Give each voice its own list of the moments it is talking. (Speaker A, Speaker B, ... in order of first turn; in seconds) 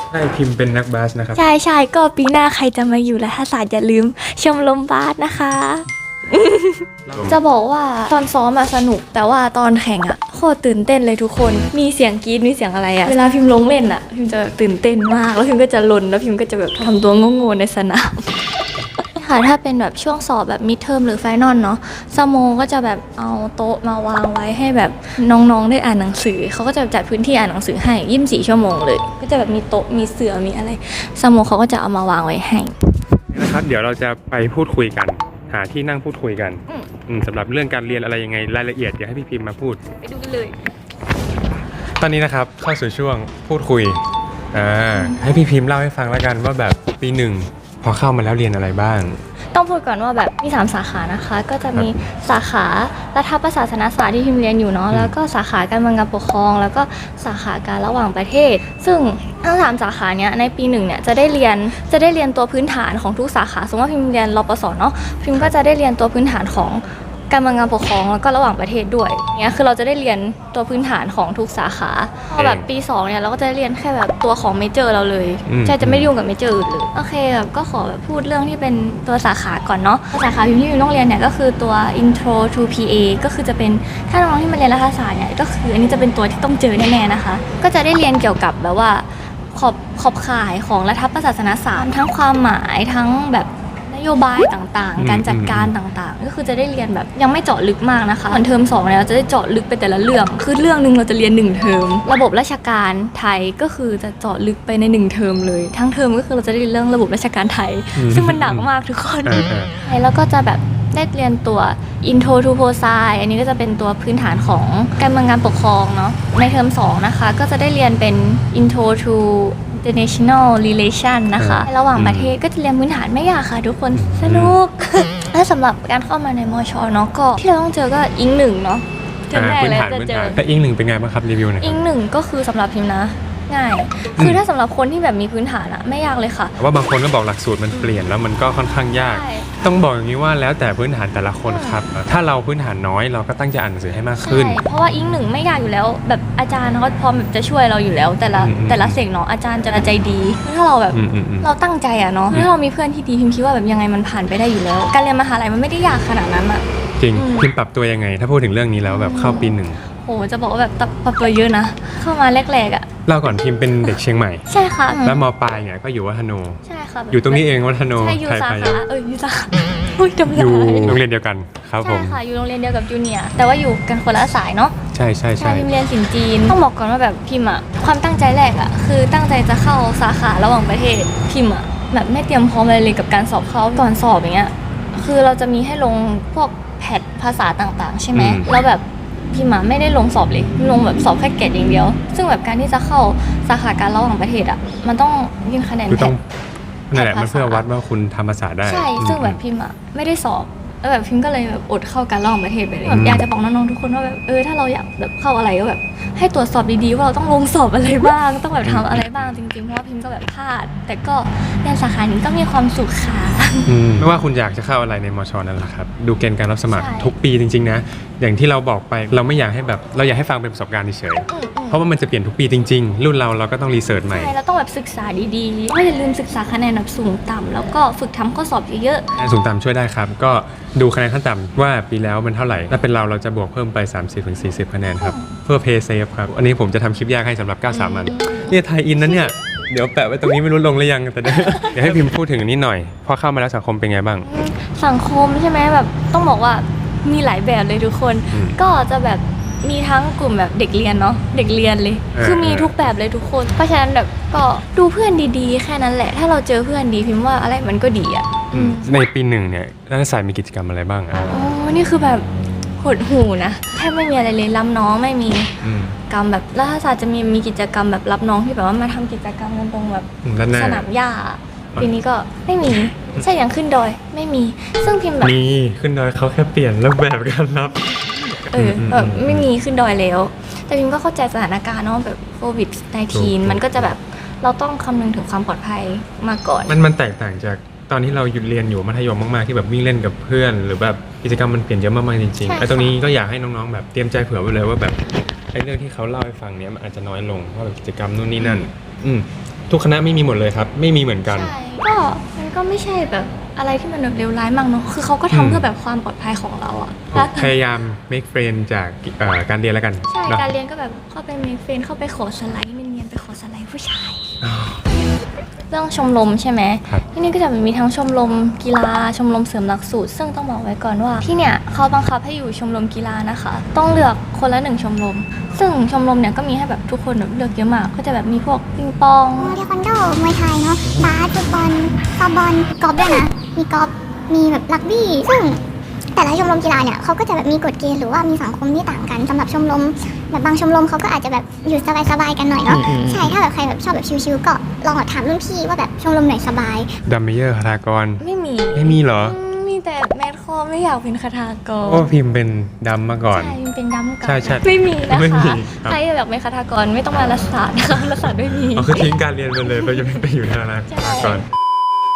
Speaker A: 0.1-1.4, 7.1-7.4, 33.3-39.8, 42.0-44.0, 44.5-49.2, 72.3-72.6, 75.5-76.1, 95.0-95.7, 108.0-108.7, 109.2-109.7, 121.4-122.3, 123.9-124.6, 129.3-131.8, 134.2-134.4, 136.6-144.6, 148.4-149.0, 150.9-151.5, 157.0-159.8, 163.1-168.8, 170.3-172.2, 174.9-175.7, 188.1-188.5, 195.9-196.2, 196.9-199.4, 202.8-203.3, 208.6-209.3, 213.7-224.3, 229.2-244.3, 248.3-248.6, 252.1-252.9, 258.5-261.2, 265.6-266.0, 270.2-270.9, 275.2-279.5, 283.1-283.9, 286.7-301.5, 305.3-305.7, 307.1-310.5, 314.4-314.8, 347.0-349.4, 351.8-353.6, 354.2-356.0, 358.2-361.4
Speaker B: 1.3-18.3, 19.1-32.8, 40.0-40.6, 44.9-45.2, 49.5-130.4, 131.6-136.6, 139.0-139.5, 141.4-141.8, 144.2-157.5, 158.8-162.9, 164.5-165.2, 166.7-171.0, 171.8-174.7, 175.4-196.1, 196.9-197.7, 198.6-213.7, 216.7-217.1, 221.3-221.8, 224.1-229.1, 235.0-235.3, 237.7-238.6, 241.2-242.0, 244.2-258.9, 261.3-262.2, 262.8-265.5, 266.1-275.3, 278.5-286.8, 292.4-293.0, 298.4-298.6, 301.3-307.5, 310.1-314.3, 315.7-329.6, 348.2-352.1, 353.3-359.1, 360.9-361.4
Speaker C: 329.4-335.6, 336.1-346.9